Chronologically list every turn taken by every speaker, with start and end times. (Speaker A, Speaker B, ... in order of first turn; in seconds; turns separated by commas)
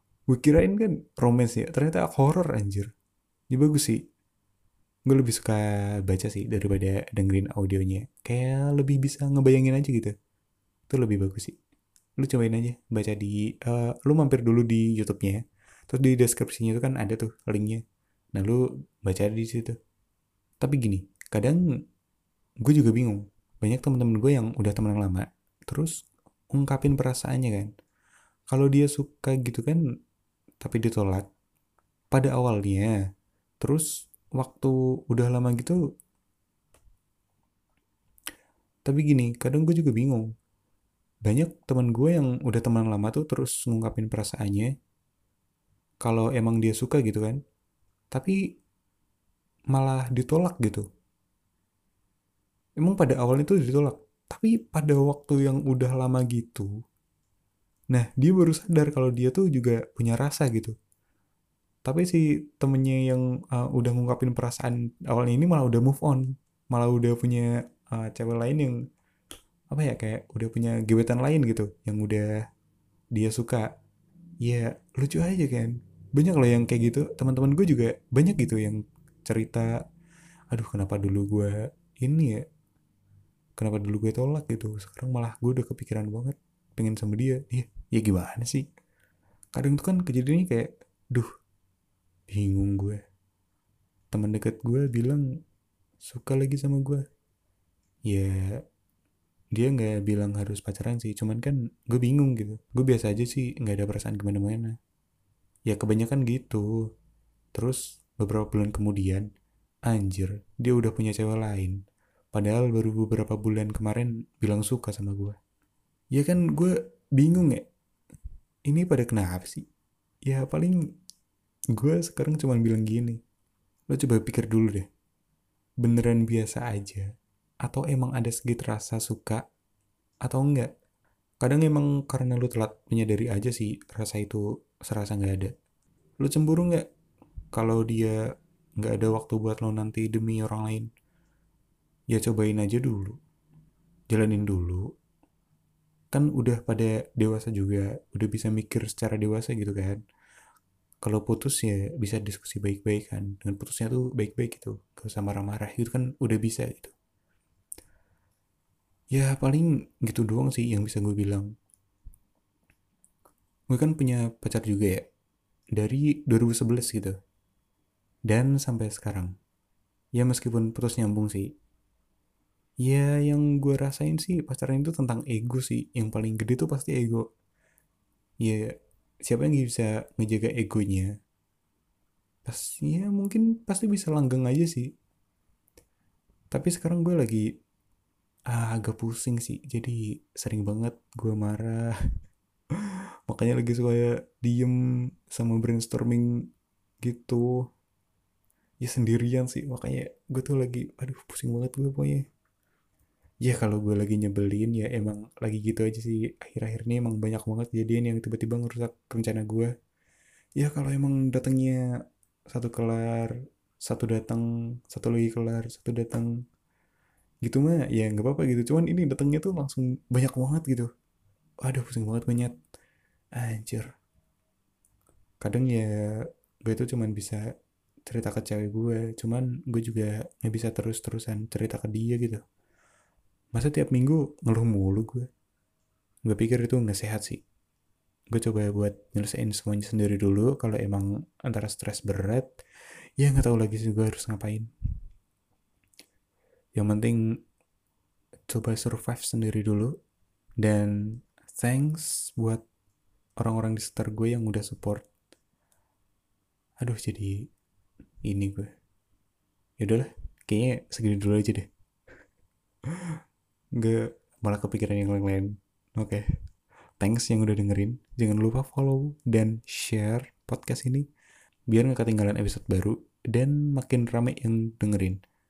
Speaker A: 0.3-2.9, Speaker A: 3.5-4.0, Speaker A: 5.1-10.1, Speaker A: 10.9-11.6, Speaker A: 12.2-17.8, Speaker A: 18.3-19.8, Speaker A: 20.6-21.6, Speaker A: 22.6-25.9, Speaker A: 26.5-27.7, Speaker A: 28.5-29.8, Speaker A: 30.6-31.2, Speaker A: 32.1-32.9, Speaker A: 33.6-33.9, Speaker A: 34.4-35.8, Speaker A: 38.9-40.3, Speaker A: 41.2-44.7, Speaker A: 46.0-47.4, Speaker A: 48.1-48.4, Speaker A: 49.7-50.9, Speaker A: 52.8-56.7, Speaker A: 57.9-60.8, Speaker A: 61.9-68.7, Speaker A: 69.7-72.3, Speaker A: 73.1-73.7, Speaker A: 74.4-79.7, Speaker A: 80.5-82.4, Speaker A: 83.6-88.6, Speaker A: 89.5-91.3, Speaker A: 92.3-93.0, Speaker A: 94.1-95.2, Speaker A: 96.0-97.0, Speaker A: 98.1-98.5, Speaker A: 99.5-104.7, Speaker A: 105.7-106.7, Speaker A: 107.5-109.3, Speaker A: 109.9-111.8, Speaker A: 112.3-115.4, Speaker A: 116.1-117.6, Speaker A: 118.7-119.6, Speaker A: 120.3-120.8, Speaker A: 121.8-123.2, Speaker A: 123.9-124.9, Speaker A: 125.8-127.0, Speaker A: 127.6-129.4, Speaker A: 130.2-130.7, Speaker A: 131.4-135.5, Speaker A: 136.2-136.8, Speaker A: 137.5-138.2, Speaker A: 138.8-140.9, Speaker A: 142.1-143.2, Speaker A: 144.1-144.9, Speaker A: 146.1-150.0, Speaker A: 151.0-156.9, Speaker A: 159.1-161.5, Speaker A: 163.7-165.0, Speaker A: 165.8-167.1, Speaker A: 168.3-169.3, Speaker A: 170.2-171.5, Speaker A: 172.8-177.3, Speaker A: 179.3-181.1, Speaker A: 182.4-184.9, Speaker A: 186.5-187.4, Speaker A: 188.5-191.9, Speaker A: 193.3-194.8, Speaker A: 195.3-196.3, Speaker A: 197.0-197.5, Speaker A: 198.8-202.2, Speaker A: 203.4-209.7, Speaker A: 210.6-211.8, Speaker A: 212.5-213.3, Speaker A: 213.8-216.3, Speaker A: 217.4-220.9, Speaker A: 221.6-222.5, Speaker A: 223.4-223.9, Speaker A: 225.4-225.9, Speaker A: 226.7-227.4, Speaker A: 228.1-232.4, Speaker A: 233.5-235.3, Speaker A: 236.3-237.4, Speaker A: 238.3-242.5, Speaker A: 243.2-244.7, Speaker A: 246.8-247.2, Speaker A: 248.5-249.9, Speaker A: 250.6-250.9, Speaker A: 251.5-252.6, Speaker A: 253.4-255.1, Speaker A: 256.8-257.3, Speaker A: 258.2-258.7, Speaker A: 259.8-261.6, Speaker A: 263.8-266.2, Speaker A: 267.0-271.1, Speaker A: 271.7-275.2